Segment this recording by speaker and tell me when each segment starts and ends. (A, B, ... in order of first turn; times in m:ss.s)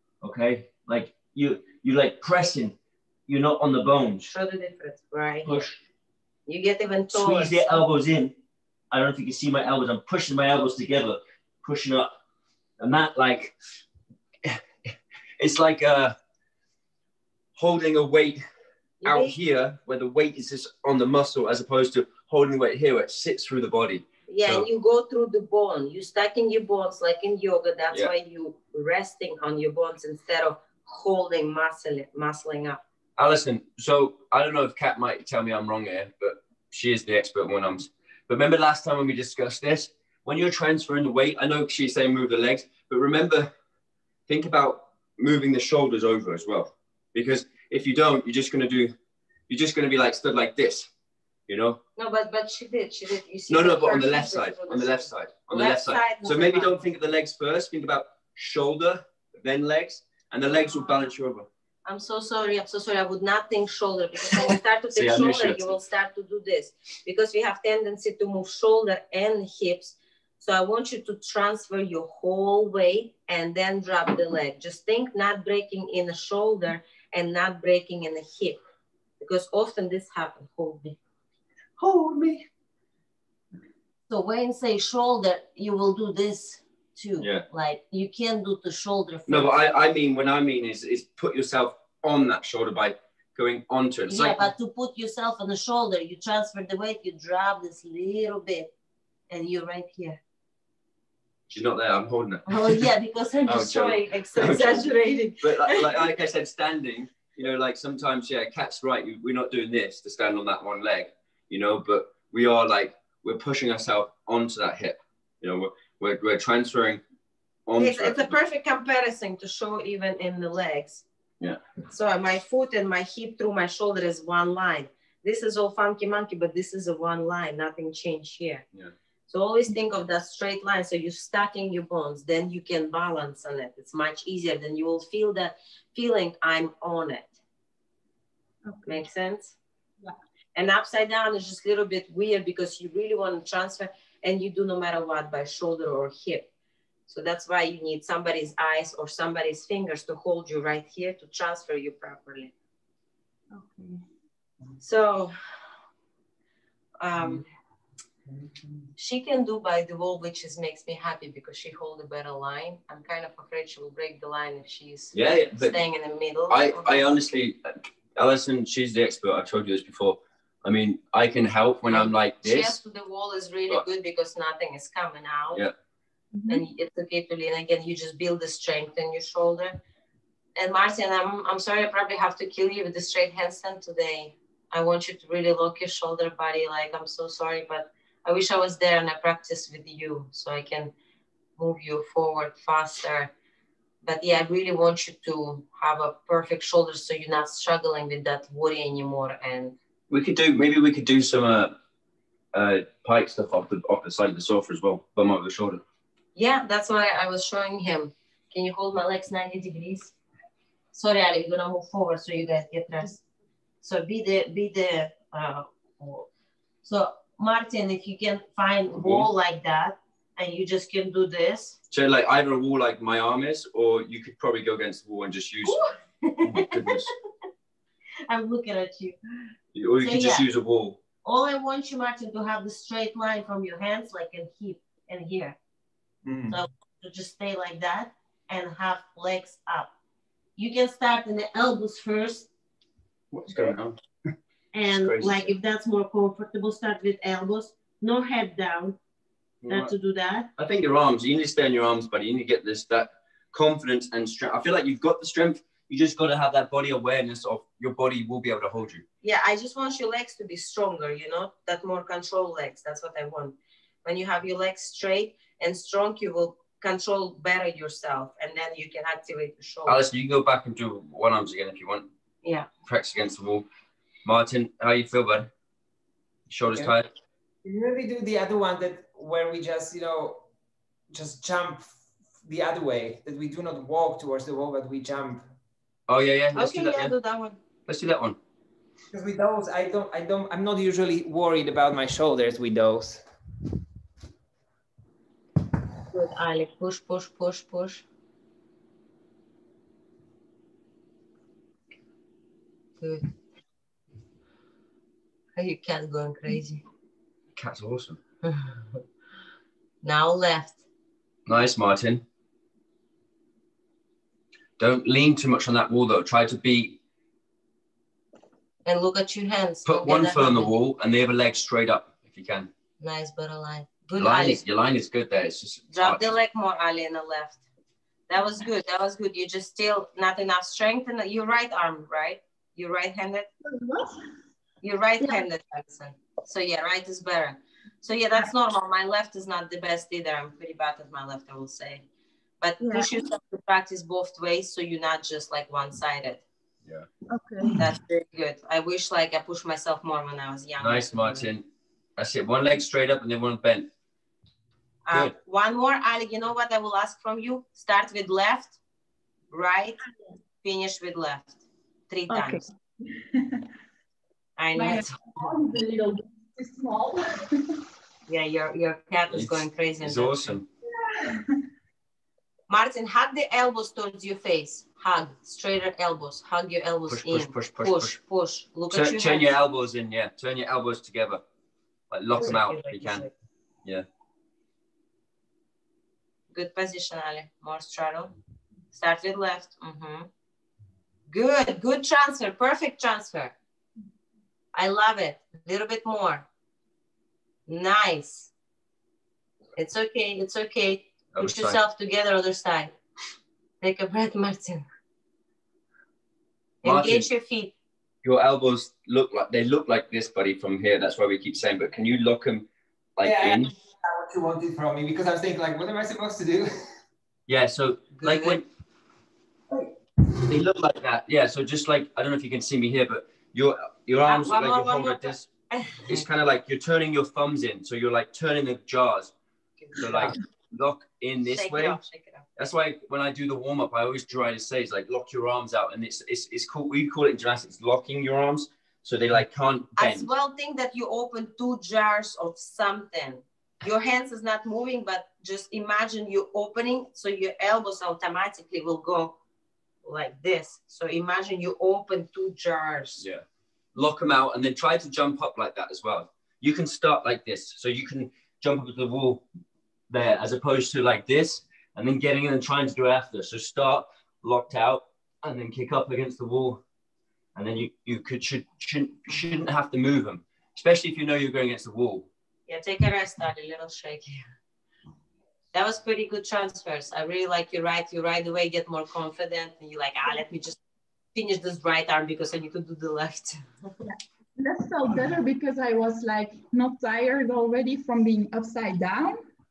0:00.2-0:02.8 A
0:03.3-0:04.3 A
0:04.2-0:05.6 B
0:05.4-0:05.8 A
0:06.5-0:07.8 B
0:07.1-0:08.3 A
0:08.9-0:12.1 A
0:12.8-0:13.6 A
0:14.4-0:16.2 A
0:17.6-0:18.4 A
0:19.0-0:19.4 B
0:19.0-0:24.7 A
0:24.3-0:32.8 B
0:33.2-0:43.5 A
0:44.3-0:48.9 A
0:49.5-0:50.9 A
0:51.5-0:51.8 A
0:52.0-0:56.8 B
0:53.5-1:01.5 A
1:01.9-1:18.6 B
1:04.9-1:05.6 A
1:19.2-1:21.0 B
1:21.8-1:22.5 A
1:24.1-1:29.7 B
1:27.2-1:27.4 A
1:29.3-1:34.5 A
1:34.1-1:38.7 B
1:39.3-1:40.2 B
1:41.5-1:42.9 A
1:42.5-1:46.1 B
1:43.5-1:44.8 A
1:45.4-1:57.0 A
1:57.7-1:58.3 A
1:57.8-2:01.0 B
2:01.9-2:08.6 B
2:09.3-2:17.4 B
2:18.7-2:19.0 C
2:18.9-2:19.6 B
2:20.6-2:26.5 B
2:27.1-2:32.5 B
2:33.5-2:34.0 C
2:34.8-2:35.3 B
2:37.0-2:37.4 B
2:39.0-2:47.0 B
2:45.1-2:45.8 A
2:46.5-2:52.8 A
2:51.9-2:55.6 B
2:56.3-2:56.6 C
2:56.5-2:59.8 B
3:00.6-3:10.9 B
3:11.6-3:13.3 B
3:14.0-3:19.8 B
3:20.1-3:21.7 A
3:22.5-3:25.8 A
3:26.4-3:30.1 B
3:30.9-3:33.2 B
3:33.8-3:36.3 B
3:36.8-3:41.8 B
3:39.0-3:39.3 A
3:41.9-3:45.9 A
3:45.6-3:47.0 B
3:46.4-3:47.1 A
3:48.3-3:49.2 B
3:49.7-3:51.0 A
3:50.0-3:50.4 B
3:51.2-3:55.6 B
3:56.2-3:56.6 D
3:56.5-3:59.9 B
4:00.6-4:02.5 B
4:03.3-4:04.0 A
4:04.7-4:09.0 B
4:05.0-4:05.5 A
4:09.6-4:09.9 A
4:09.7-4:10.5 B
4:10.6-4:19.0 A
4:19.2-4:30.0 B
4:29.9-4:32.1 A
4:32.4-4:32.7 B
4:32.9-4:33.7 A
4:34.2-4:35.5 A
4:36.5-4:37.1 A
4:37.6-4:40.5 D
4:41.1-4:41.9 D
4:42.4-4:45.4 D
4:46.1-4:47.1 A
4:46.5-4:47.6 B
4:47.9-4:48.4 A
4:49.1-4:53.2 D
4:56.1-4:58.0 B
5:03.0-5:03.3 B
5:05.6-5:06.8 B
5:07.6-5:08.2 A
5:08.4-5:09.0 B
5:10.0-5:10.8 B
5:11.5-5:12.2 A
5:14.8-5:17.0 A
5:18.8-5:20.7 B
5:19.8-5:22.7 A
5:23.0-5:24.6 B
5:24.2-5:26.2 A
5:25.9-5:27.6 B
5:28.3-5:33.5 B
5:33.6-5:34.2 C
5:34.8-5:42.1 B
5:42.6-5:46.4 B
5:42.8-5:43.1 C
5:47.3-5:47.9 C
5:47.7-5:51.5 B
5:50.8-5:51.6 A
5:52.2-5:53.9 A
5:55.1-5:58.8 B
5:59.5-6:00.0 B
6:00.6-6:02.6 B
6:02.3-6:03.7 C
6:04.6-6:05.2 B
6:04.8-6:07.8 C
6:08.3-6:10.6 B
6:09.3-6:10.7 A
6:11.0-6:11.6 C
6:12.7-6:19.6 B
6:17.1-6:18.2 A
6:18.9-6:21.4 A
6:22.1-6:23.2 A
6:22.4-6:23.3 B
6:26.5-6:28.3 B
6:28.9-6:30.3 B
6:31.3-6:33.5 B
6:34.8-6:36.5 B
6:37.7-6:38.5 B
6:39.8-6:43.0 B
6:41.3-6:41.8 A
6:43.8-6:44.9 B
6:46.8-6:47.7 B
6:46.8-6:47.3 A
6:48.2-6:53.7 A
6:53.2-6:56.9 D
6:57.5-6:58.6 A
6:58.2-6:58.6 B
7:00.5-7:05.5 A
7:04.3-7:06.3 B
7:06.0-7:09.3 A
7:09.8-7:10.3 B
7:10.0-7:12.0 A
7:11.6-7:12.5 B
7:12.6-7:20.3 A
7:20.0-7:29.4 B
7:30.0-7:33.2 B
7:34.0-7:39.4 A
7:40.1-7:46.8 A
7:47.6-7:52.3 A
7:52.7-7:54.4 B
7:55.7-8:00.8 B
8:01.3-8:03.9 B
8:04.6-8:09.4 C